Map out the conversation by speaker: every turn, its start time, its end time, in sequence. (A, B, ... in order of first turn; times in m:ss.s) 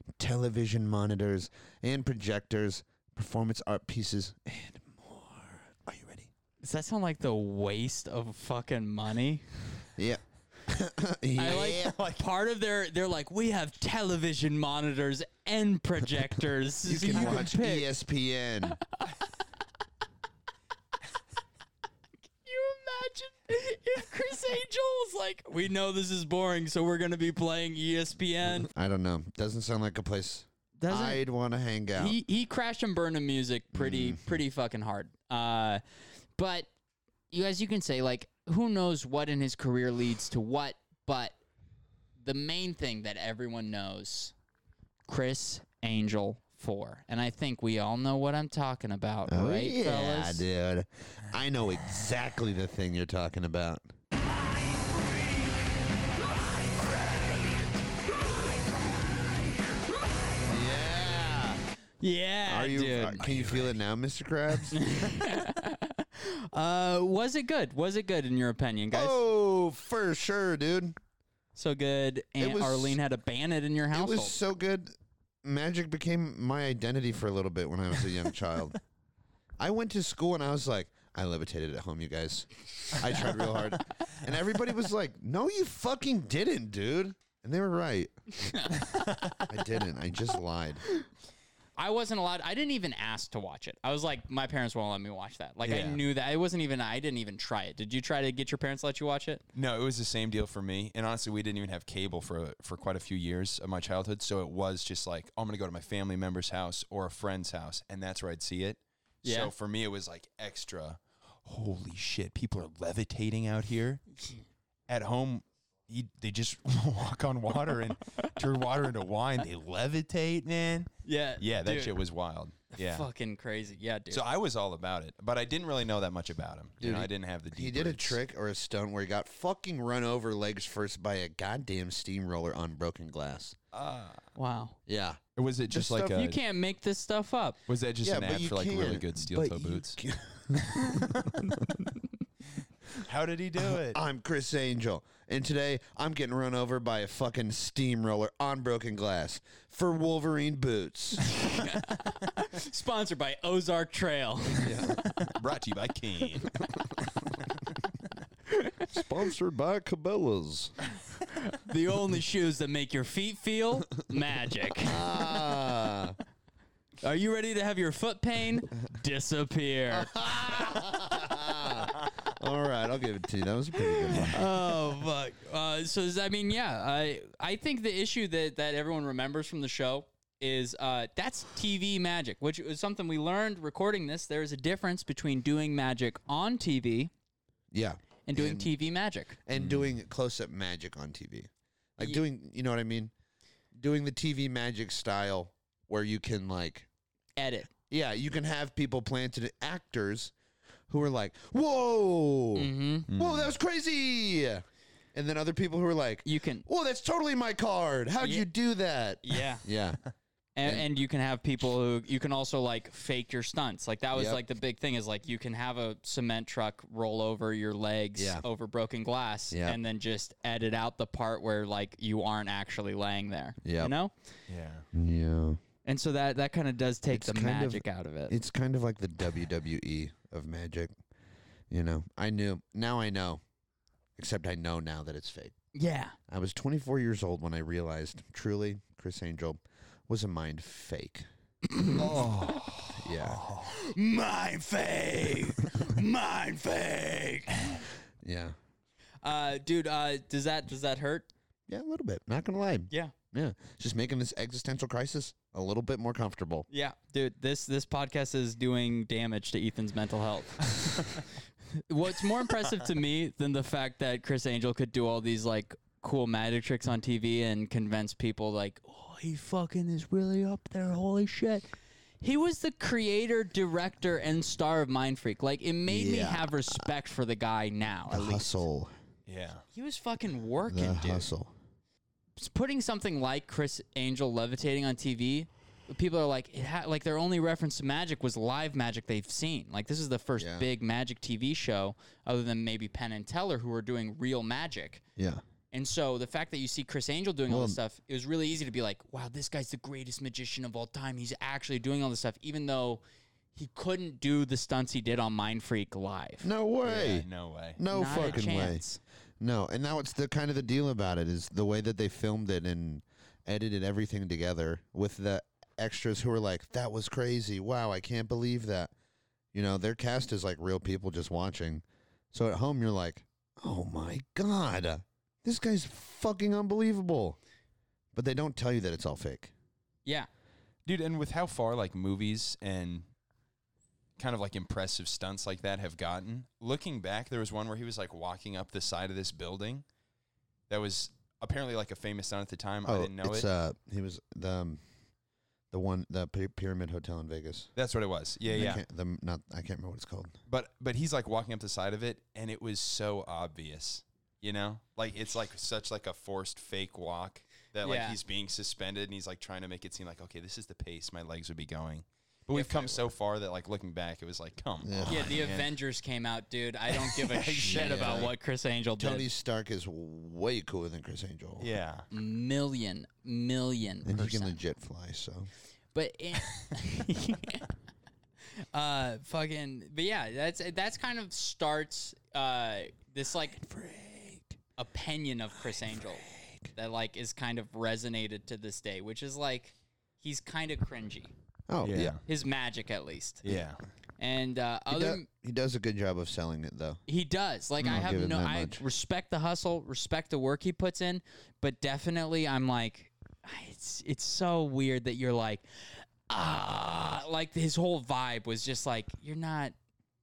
0:00.2-0:06.3 A
0:06.6-0:09.4 B
0:10.0-0:11.9 A
0:11.4-0:17.9 B
0:16.8-0:18.8 A
0:22.4-0:28.7 B
0:28.6-0:32.2 A
0:30.8-0:31.2 B
0:32.0-0:35.8 B
0:33.7-0:34.2 A
0:36.4-0:36.7 B
0:37.3-0:41.4 B
0:42.2-0:44.3 B
0:45.1-0:50.4 B
0:49.3-0:53.8 A
1:00.4-1:01.6 A
1:02.0-1:03.2 B
1:02.4-1:04.8 A
1:03.2-1:03.7 C
1:04.7-1:09.2 B
1:08.9-1:11.0 A
1:11.5-1:14.4 B
1:12.4-1:13.0 A
1:13.9-1:14.9 A
1:15.4-1:18.8 A
1:19.6-1:28.8 A
1:28.4-1:28.7 B
1:28.7-1:29.5 C
1:29.4-1:30.8 A
1:31.8-1:39.4 B
1:35.6-1:36.0 C
1:39.5-1:54.0 C
1:49.2-1:49.5 B
1:54.9-2:03.0 C
2:01.0-2:02.0 B
2:02.7-2:04.2 B
2:04.1-2:08.2 C
2:06.8-2:13.6 A
2:13.7-2:14.2 C
2:14.4-2:14.8 B
2:14.9-2:16.2 A
2:15.4-2:16.4 C
2:16.1-2:17.6 B
2:17.7-2:20.0 C
2:18.0-2:21.5 A
2:20.5-2:21.4 C
2:22.9-2:24.0 C
2:23.7-2:31.2 A
2:31.3-2:35.0 B
2:34.6-2:35.0 A
2:35.0-2:36.6 C
2:38.5-2:38.9 B
2:38.9-2:40.7 A
2:41.3-2:45.1 B
2:44.8-2:46.2 A
2:47.0-2:50.9 B
2:49.9-2:54.5 A
2:54.1-3:07.1 B
3:07.7-3:08.7 A
3:08.2-3:09.4 B
3:09.4-3:13.1 A
3:09.5-3:09.8 C
3:13.7-3:16.9 A
3:17.4-3:17.7 B
3:17.9-3:20.3 A
3:20.9-3:30.0 A
3:22.5-3:23.1 B
3:23.1-3:23.5 C
3:26.2-3:26.6 B
3:28.2-3:28.5 B
3:29.2-3:29.6 B
3:30.6-3:44.1 B
3:34.1-3:34.4 A
3:38.2-3:38.4 A
3:39.5-3:39.8 A
3:43.6-3:43.9 A
3:44.5-3:44.8 C
3:44.9-3:45.6 A
3:45.8-3:48.3 B
3:47.1-3:50.9 A
3:51.7-3:53.4 A
3:54.2-3:55.5 A
3:55.7-3:56.2 B
3:56.3-4:01.2 A
4:02.0-4:03.7 C
4:02.9-4:03.5 A
4:03.6-4:07.8 B
4:08.2-4:08.5 A
4:09.2-4:11.3 B
4:11.7-4:16.6 A
4:16.7-4:21.2 B
4:21.8-4:31.6 B
4:32.2-4:38.5 B
4:35.8-4:36.7 A
4:38.1-4:38.9 A
4:39.3-4:39.6 C
4:39.7-4:41.3 B
4:40.7-4:41.5 A
4:42.4-4:55.0 B
4:50.4-4:50.6 A
4:55.2-4:55.4 A
4:55.7-5:03.0 B
4:57.5-4:57.8 A
5:03.5-5:06.5 B
5:06.4-5:08.8 A
5:06.8-5:08.4 C
5:07.9-5:09.0 B
5:09.4-5:18.9 A
5:19.5-5:27.4 A
5:28.1-5:29.5 A
5:30.8-5:33.1 C
5:34.2-5:39.8 C
5:40.7-5:43.5 C
5:42.8-5:44.8 A
5:45.7-5:47.7 A
5:47.8-5:48.8 C
5:48.5-5:50.3 A
5:50.5-6:05.7 C
5:57.8-5:58.2 B
6:02.5-6:03.0 B
6:04.8-6:05.4 A
6:05.1-6:09.3 B
6:07.0-6:08.3 C
6:07.6-6:08.3 A
6:09.0-6:11.7 A
6:11.6-6:12.1 C
6:12.1-6:14.6 B
6:14.0-6:15.5 A
6:15.9-6:17.7 B
6:18.7-6:23.6 B
6:23.6-6:24.5 A
6:24.8-6:31.3 B
6:31.7-6:32.2 A
6:31.8-6:32.2 C
6:32.2-6:33.5 B
6:33.4-6:33.8 C
6:34.2-6:35.2 B
6:34.9-6:37.0 A
6:37.1-6:49.7 B
6:37.8-6:38.8 A